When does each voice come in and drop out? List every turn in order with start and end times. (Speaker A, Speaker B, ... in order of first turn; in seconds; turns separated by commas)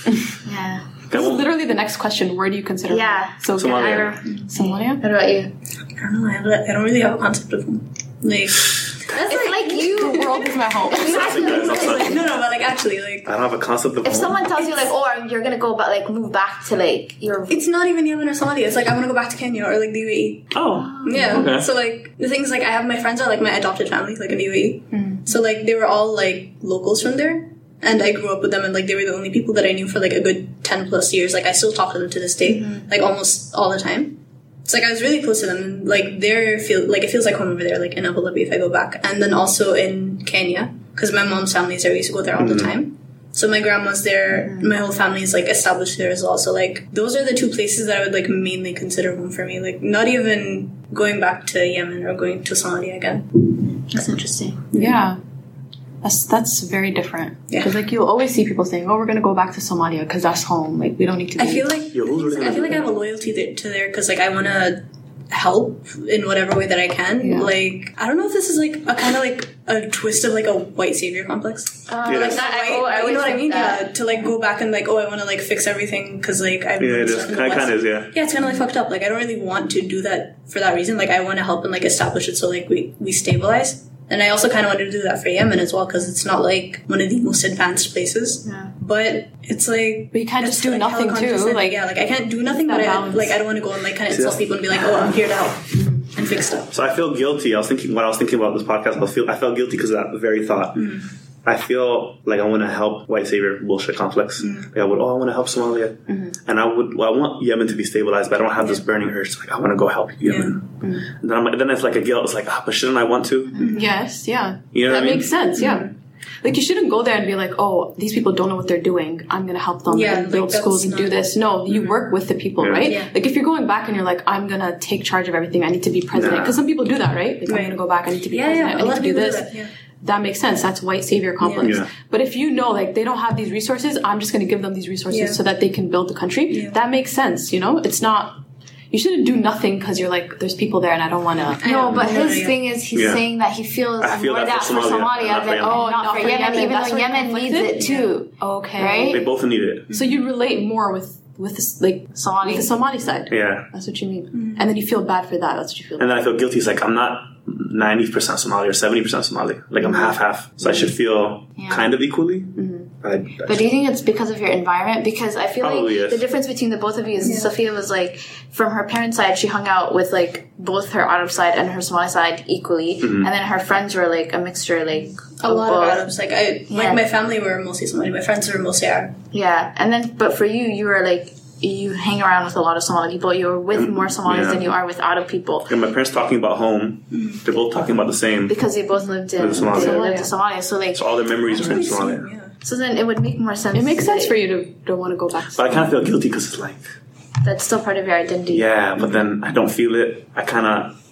Speaker A: 0.5-0.9, Speaker B: 1.1-1.5, Speaker C: 1.1-5.0, Speaker A: 2.9-5.5, Speaker B: 3.6-4.2, Speaker D: 6.0-13.3, Speaker A: 9.2-12.3, Speaker C: 9.3-11.5, Speaker B: 11.0-12.3, Speaker B: 13.2-14.5, Speaker A: 14.0-17.6, Speaker D: 17.5-20.5, Speaker B: 20.5-21.7, Speaker A: 20.8-21.5, Speaker D: 21.0-53.5, Speaker C: 24.9-25.2, Speaker A: 32.5-32.8, Speaker B: 42.4-42.7, Speaker A: 44.4-44.7, Speaker A: 53.9-54.6, Speaker D: 54.7-55.0, Speaker C: 54.8-55.2, Speaker C: 56.0-61.7, Speaker D: 57.5-57.7, Speaker D: 61.4-96.7, Speaker B: 61.9-62.9, Speaker C: 67.2-67.5, Speaker A: 71.9-74.0, Speaker B: 72.0-72.4, Speaker B: 76.8-78.1, Speaker A: 88.5-88.7, Speaker C: 90.1-91.8, Speaker C: 92.6-93.4, Speaker B: 94.1-95.0, Speaker C: 95.8-96.0, Speaker B: 96.7-113.7, Speaker D: 100.8-101.1, Speaker D: 104.4-104.7, Speaker C: 106.1-106.4, Speaker D: 110.2-110.6, Speaker C: 110.8-111.1, Speaker D: 113.6-114.0, Speaker C: 113.7-115.9, Speaker B: 114.7-115.3, Speaker D: 115.6-115.9, Speaker C: 116.4-129.5, Speaker D: 119.9-122.0, Speaker B: 122.6-122.9, Speaker D: 122.8-123.1, Speaker B: 126.1-126.6, Speaker D: 127.5-129.7, Speaker C: 130.0-138.4, Speaker D: 131.4-131.7, Speaker B: 131.6-131.9, Speaker D: 135.1-135.4, Speaker D: 136.5-136.8, Speaker C: 138.9-141.6, Speaker D: 141.6-142.6, Speaker A: 141.6-149.3, Speaker B: 142.9-143.2, Speaker B: 144.0-145.8, Speaker C: 145.6-149.3, Speaker B: 149.1-149.9, Speaker D: 149.9-150.2, Speaker C: 149.9-156.2, Speaker A: 152.2-152.7, Speaker B: 153.3-153.7, Speaker D: 154.3-154.7, Speaker B: 156.0-163.7, Speaker A: 161.6-161.9, Speaker C: 162.6-162.9, Speaker A: 163.4-176.1, Speaker B: 165.6-166.2, Speaker D: 167.2-167.5, Speaker B: 173.0-173.3, Speaker D: 175.4-179.2, Speaker A: 176.7-177.0, Speaker A: 179.3-185.7, Speaker B: 183.7-184.7, Speaker B: 185.7-188.6, Speaker D: 187.1-187.4, Speaker A: 188.5-191.8, Speaker B: 189.4-190.1, Speaker C: 189.6-190.3, Speaker B: 190.9-192.3, Speaker D: 191.5-192.5, Speaker A: 192.6-194.4, Speaker C: 193.7-195.8, Speaker B: 195.6-196.8, Speaker A: 197.4-198.7, Speaker B: 198.5-200.9